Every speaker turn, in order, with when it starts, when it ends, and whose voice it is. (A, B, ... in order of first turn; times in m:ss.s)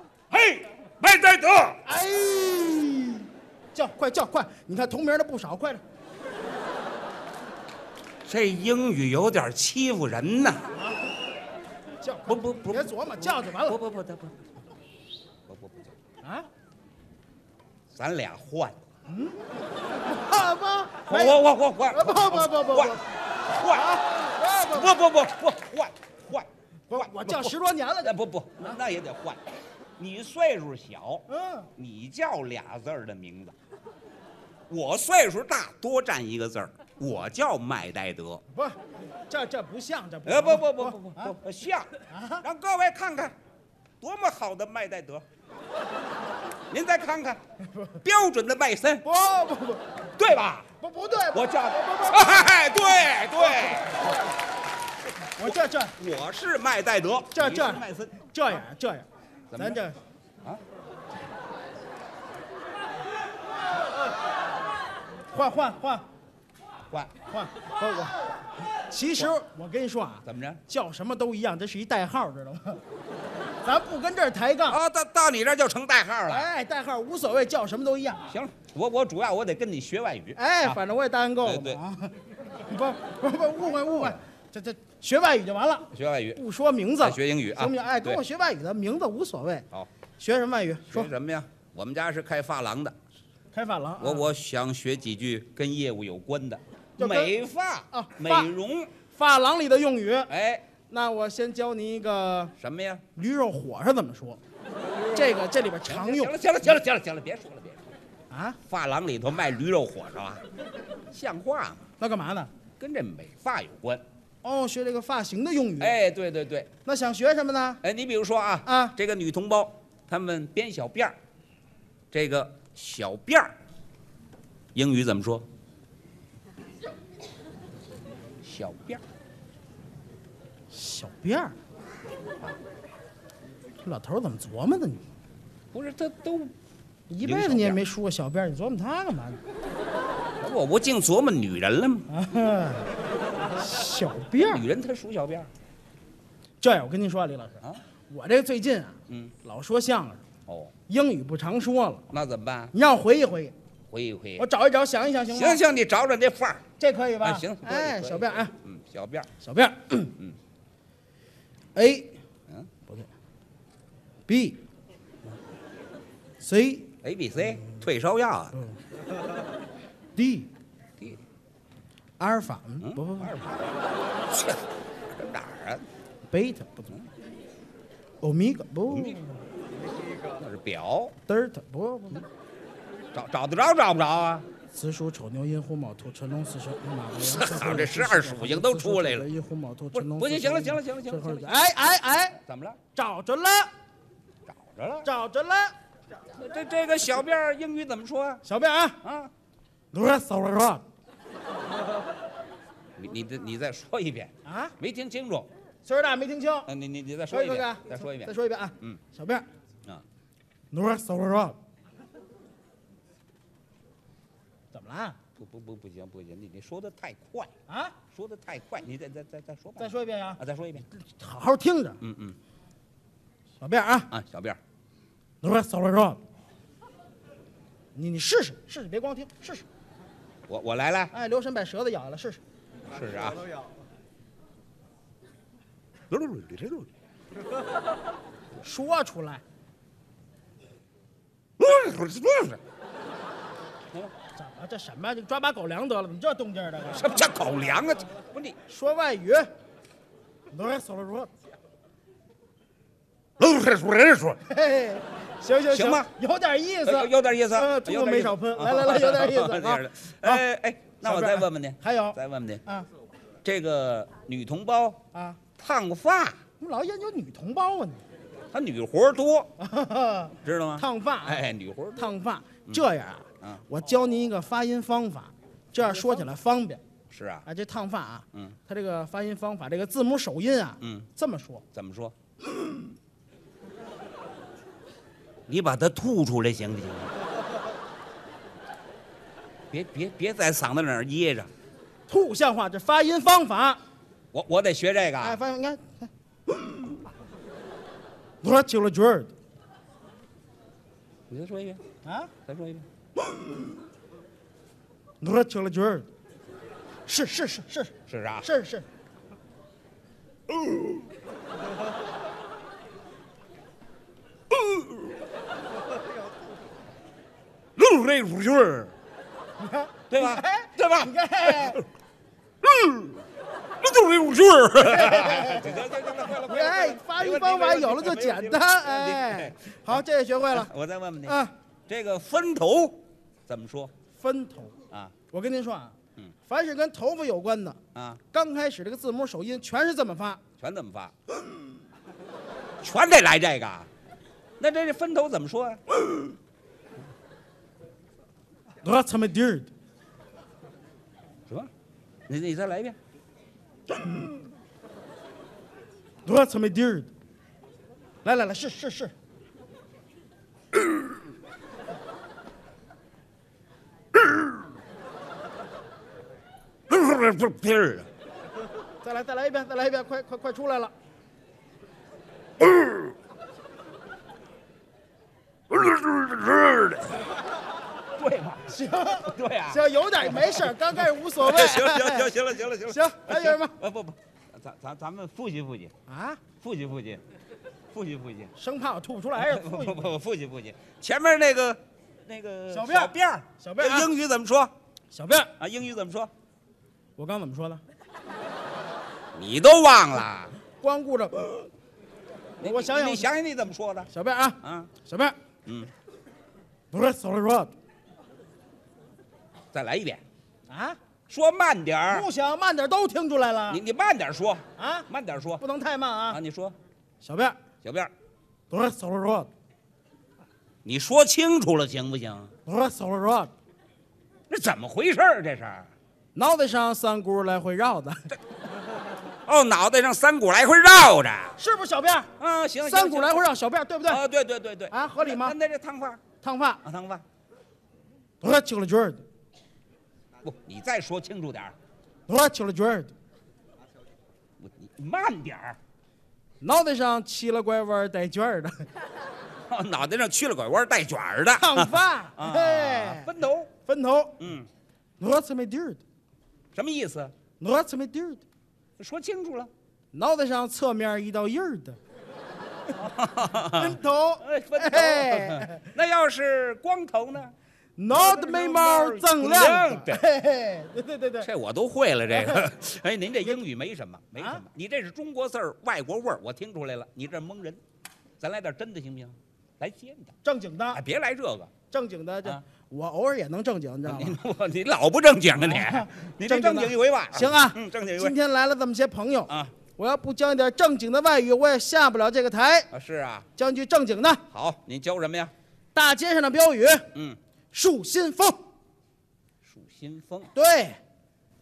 0:00.3-0:01.8 A
0:01.8-0:05.8 B
0:08.2-0:10.6 A
0:12.0-0:13.8 B
0:12.3-0:14.3 A
0:15.5-0:15.9 A
0:17.9-0:18.8 A
0:19.1-0:19.4 B
0:20.0-0:23.1 B
0:21.1-0:29.4 A
0:23.7-0:24.9 B
0:26.9-0:28.8 B
0:30.0-0:33.6 A
0:31.3-0:31.7 B
0:34.7-0:38.4 A
0:39.3-0:41.3 B
0:40.3-0:41.9 A
0:42.1-0:42.4 B
0:42.4-0:43.4 A
0:44.0-0:45.2 A
0:46.7-0:47.4 A
0:47.7-0:48.0 B
0:48.0-0:49.0 A
0:49.0-0:49.9 B
0:50.2-0:50.7 A
0:50.8-0:52.6 B
0:51.3-0:54.2 A
0:53.4-0:54.0 B
0:55.4-0:56.0 B
0:55.4-0:58.2 A
0:57.3-1:00.0 B
0:59.5-0:59.8 A
1:05.3-1:06.1 B
1:07.3-1:12.8 B
1:10.2-1:10.6 A
1:13.6-1:14.8 B
1:14.7-1:16.5 A
1:16.3-1:18.3 B
1:18.3-1:20.8 A
1:20.4-1:29.7 B
1:21.4-1:21.8 A
1:25.9-1:26.4 A
1:27.0-1:28.2 A
1:30.2-1:31.1 B
1:30.9-1:33.0 A
1:33.5-1:34.3 B
1:34.0-1:38.9 A
1:37.0-1:37.4 B
1:37.9-1:38.5 B
1:39.1-1:40.3 B
1:40.3-1:40.6 A
1:40.9-1:42.5 B
1:42.6-1:43.0 A
1:43.2-1:44.4 B
1:45.0-1:47.8 A
1:45.1-1:46.4 B
1:48.3-1:48.6 B
1:48.7-1:50.4 A
1:51.1-1:51.9 A
1:52.0-1:52.5 B
1:52.8-1:54.0 A
1:54.4-1:56.0 B
1:55.8-1:56.7 A
1:56.8-1:57.8 B
1:57.8-2:01.2 A
1:58.6-1:59.0 B
2:02.1-2:03.5 A
2:04.7-2:05.5 A
2:08.4-2:09.0 A
2:10.7-2:11.6 B
2:13.8-2:15.0 B
2:15.7-2:16.5 A
2:17.1-2:19.4 B
2:17.2-2:17.8 A
2:20.4-2:22.1 A
2:22.1-2:22.9 B
2:23.6-2:24.7 B
2:24.4-2:25.5 A
2:26.6-2:30.2 B
2:29.1-2:29.3 A
2:30.5-2:30.7 A
2:30.9-2:32.0 B
2:32.1-2:32.7 A
2:32.7-2:33.5 B
2:33.9-2:34.5 A
2:34.4-2:35.6 B
2:35.3-2:36.6 A
2:36.8-2:38.5 B
2:37.2-2:39.3 A
2:39.4-2:40.2 B
2:41.8-2:42.1 B
2:44.3-2:44.6 B
2:46.4-2:46.9 B
2:47.0-2:48.6 A
2:50.2-2:50.5 B
2:52.2-2:53.4 B
2:52.8-2:53.8 A
2:54.3-2:55.9 A
2:56.3-2:57.0 B
2:58.2-2:59.4 B
2:58.9-2:59.2 A
3:00.4-3:01.2 A
3:01.3-3:02.2 B
3:03.1-3:04.5 A
3:04.7-3:12.4 B
3:07.1-3:09.3 A
3:09.9-3:11.5 A
3:12.5-3:12.8 A
3:13.0-3:13.7 B
3:14.5-3:15.1 A
3:15.0-3:15.7 B
3:16.3-3:18.4 A
3:18.4-3:19.0 B
3:19.0-3:19.3 A
3:19.9-3:20.8 B
3:23.0-3:25.5 A
3:24.4-3:24.8 B
3:25.8-3:26.7 B
3:26.7-3:29.0 A
3:27.3-3:29.5 B
3:30.7-3:31.6 B
3:34.7-3:35.2 B
3:35.4-3:37.5 A
3:37.7-3:38.0 B
3:38.1-3:40.9 A
3:39.8-3:40.4 B
3:41.0-3:42.0 B
3:42.0-3:42.4 A
3:43.6-3:44.1 B
3:44.1-3:44.6 A
3:45.4-3:46.2 B
3:48.0-3:49.6 B
3:50.5-3:51.1 A
3:51.1-3:52.4 B
3:52.8-3:53.5 A
3:56.1-3:56.9 A
3:58.6-3:59.4 B
4:01.6-4:02.6 A
4:04.4-4:07.1 B
4:06.9-4:08.6 A
4:08.7-4:09.5 B
4:10.5-4:11.3 B
4:13.4-4:14.4 A
4:14.4-4:20.4 B
4:15.7-4:16.1 A
4:16.8-4:22.6 A
4:21.0-4:22.9 B
4:23.4-4:25.0 A
4:25.1-4:25.4 B
4:25.6-4:26.4 A
4:26.6-4:28.0 B
4:28.5-4:29.5 A
4:29.6-4:36.8 B
4:30.4-4:32.1 A
4:37.1-4:37.5 A
4:37.5-4:41.6 B
4:40.8-4:41.1 A
4:41.7-4:42.1 A
4:45.5-4:47.1 A
4:49.7-4:51.5 A
4:52.1-4:53.8 B
4:54.3-4:55.4 A
4:55.2-4:56.1 B
4:58.4-4:59.3 B
5:01.3-5:01.8 A
5:02.0-5:02.3 B
5:02.5-5:02.8 A
5:05.2-5:06.1 B
5:07.1-5:08.9 B
5:08.1-5:08.5 A
5:17.8-5:18.9 A
5:19.6-5:21.8 B
5:20.1-5:21.8 A
5:22.6-5:23.2 A
5:23.8-5:31.4 A
5:24.8-5:30.7 B
5:31.3-5:31.5 B
5:31.9-5:33.9 A
5:34.2-5:34.8 B
5:35.3-5:36.0 B
5:36.5-5:37.8 B
5:38.0-5:38.2 A
5:38.3-5:40.4 B
5:40.6-5:41.2 A
5:42.8-5:43.9 A
5:44.6-5:46.0 A
5:48.8-5:49.7 B
5:52.3-5:53.0 A
5:56.2-5:57.1 B
5:58.2-5:59.1 B
6:06.9-6:08.1 A
6:09.0-6:10.9 B
6:15.7-6:17.3 A
6:18.2-6:20.9 A
6:18.7-6:22.4 B
6:21.4-6:25.9 A
6:22.9-6:23.8 B
6:26.1-6:26.4 B
6:26.6-6:27.2 A
6:27.9-6:28.5 A
6:28.6-6:30.2 B
6:29.4-6:34.7 A
6:32.7-6:34.1 B
6:35.1-6:35.5 B
6:35.6-6:36.3 A
6:37.2-6:37.8 B
6:39.4-6:40.6 A
6:40.8-6:41.7 B
6:42.6-6:44.1 A
6:42.6-6:43.3 B
6:44.1-6:45.4 B
6:44.6-6:44.9 A
6:45.7-6:45.9 A
6:46.9-6:47.7 B
6:49.7-6:50.2 A
6:50.7-6:51.0 B
6:51.3-6:52.3 A
6:52.1-6:53.8 B
6:53.7-6:55.6 A
6:54.8-6:55.1 B
6:55.6-6:56.4 B
6:56.3-6:56.8 A
6:57.2-6:57.6 B
6:57.8-6:58.1 A
6:58.7-6:59.5 B
7:00.8-7:02.5 A
7:02.7-7:03.5 B
7:04.5-7:05.9 A
7:06.4-7:08.3 B
7:09.5-7:11.6 A
7:11.6-7:12.3 B
7:12.4-7:13.4 A
7:12.8-7:14.2 B
7:14.1-7:16.2 A
7:14.9-7:15.6 B
7:16.4-7:16.8 B
7:16.8-7:17.2 A
7:18.4-7:19.2 B
7:20.4-7:21.8 A
7:22.3-7:23.1 B
7:24.6-7:25.8 A
7:26.6-7:28.9 B
7:29.7-7:33.7 A
7:31.6-7:33.3 B
7:33.8-7:34.4 B
7:34.4-7:34.7 A
7:35.2-7:36.0 B
7:36.7-7:37.3 A
7:37.6-7:38.4 B
7:39.0-7:39.7 A
7:40.1-7:42.0 B
7:43.0-7:47.6 A
7:43.7-7:45.9 B
7:48.0-7:51.5 B
7:48.1-7:50.2 A
7:51.4-7:57.8 A
7:52.3-7:52.7 B
7:58.4-8:00.4 A
8:00.4-8:01.0 B
8:00.9-8:01.7 A
8:01.9-8:04.4 B
8:04.0-8:08.3 A
8:05.6-8:12.9 B
8:09.5-8:09.8 A
8:12.9-8:13.5 A
8:13.6-8:14.4 B
8:14.5-8:15.5 A
8:15.9-8:17.1 B
8:17.1-8:17.4 A
8:17.7-8:18.6 B
8:19.6-8:20.5 A
8:20.6-8:21.0 B